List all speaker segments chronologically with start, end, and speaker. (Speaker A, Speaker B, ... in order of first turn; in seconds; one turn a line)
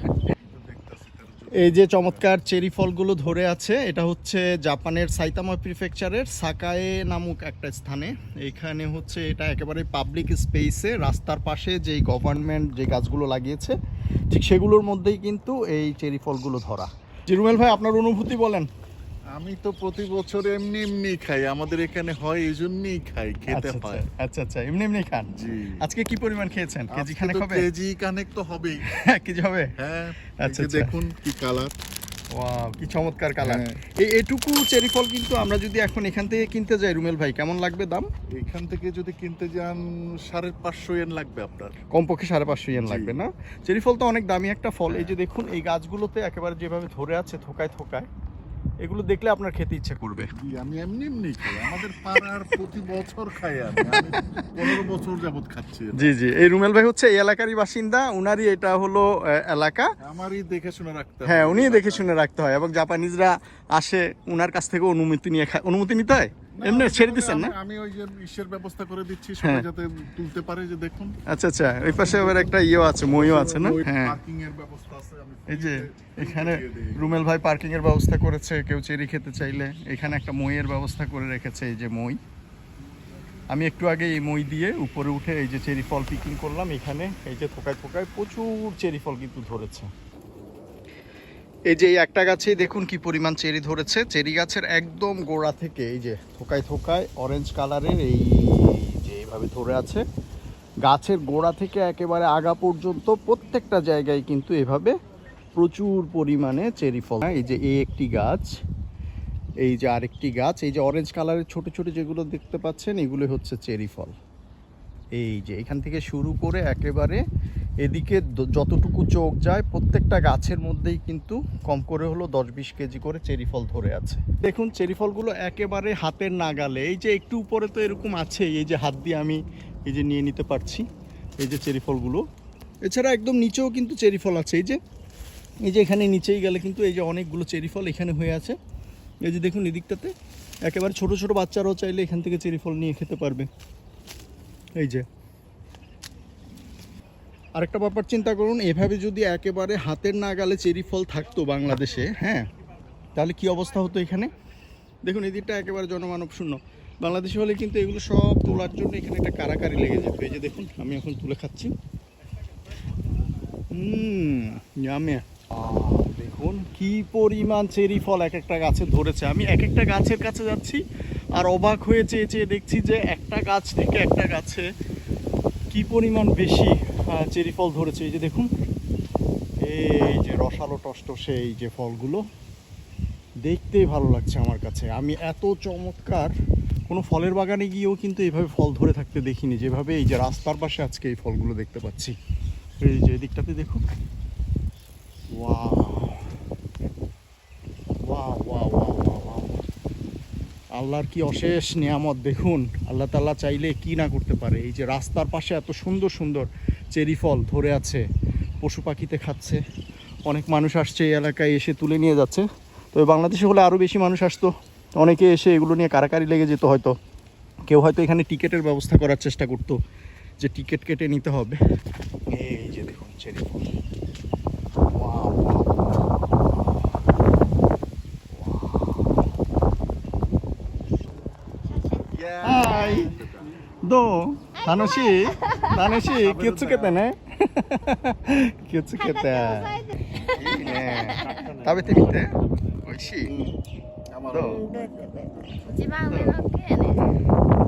Speaker A: 0.3-2.2
Speaker B: 1.6-13.7
Speaker B: 14.3-18.7
Speaker A: 19.3-24.1
Speaker B: 23.5-25.3
Speaker A: 25.4-25.8
Speaker B: 25.8-27.6
Speaker A: 26.9-28.8
Speaker B: 28.9-29.7
Speaker A: 29.8-31.7
Speaker B: 30.4-30.9
Speaker B: 32.4-38.1
Speaker A: 33.4-33.8
Speaker A: 38.3-41.8
Speaker B: 41.9-48.1
Speaker A: 42.7-43.2
Speaker A: 44.9-45.1
Speaker B: 48.8-50.3
Speaker A: 50.3-56.1
Speaker B: 53.8-54.8
Speaker B: 56.0-59.9
Speaker A: 60.0-62.1
Speaker B: 61.2-67.5
Speaker A: 66.6-71.1
Speaker B: 71.3-74.2
Speaker A: 73.0-77.1
Speaker B: 75.5-82.2
Speaker B: 83.5-89.9
Speaker B: 91.7-100.0
Speaker B: 100.9-104.9
Speaker B: 105.5-108.5
Speaker B: 109.6-114.1
Speaker B: 115.2-117.2
Speaker B: 117.8-130.8
Speaker B: 131.4-132.2
Speaker B: 132.8-134.8
Speaker B: 135.7-138.6
Speaker B: 139.2-140.1
Speaker B: 140.7-143.5
Speaker B: 144.8-145.0
Speaker B: 147.6-152.4
Speaker B: 153.2-154.3
Speaker B: 155.0-161.7
Speaker B: 163.7-170.8
Speaker B: 171.3-174.6
Speaker B: 175.7-178.5
Speaker B: 179.6-182.2
Speaker B: 183.4-186.3
Speaker B: 186.9-192.1
Speaker B: 192.8-193.8
Speaker B: 195.3-196.3
Speaker B: 198.1-199.6
Speaker B: 200.8-208.0
Speaker B: 208.6-209.6
Speaker B: 210.3-216.9
Speaker B: 217.7-219.8
Speaker B: 220.4-221.6
Speaker B: 222.3-223.6
Speaker B: 224.9-226.0
Speaker B: 228.3-229.2
Speaker A: 232.1-233.5
Speaker B: 232.4-233.2
Speaker B: 233.8-242.3
Speaker C: 234.7-235.8
Speaker A: 236.1-237.0
Speaker C: 239.3-239.7
Speaker B: 242.8-243.3
Speaker A: 243.2-243.5
Speaker A: 244.1-245.1
Speaker B: 244.3-244.6
Speaker C: 244.7-247.0
Speaker B: 246.1-246.3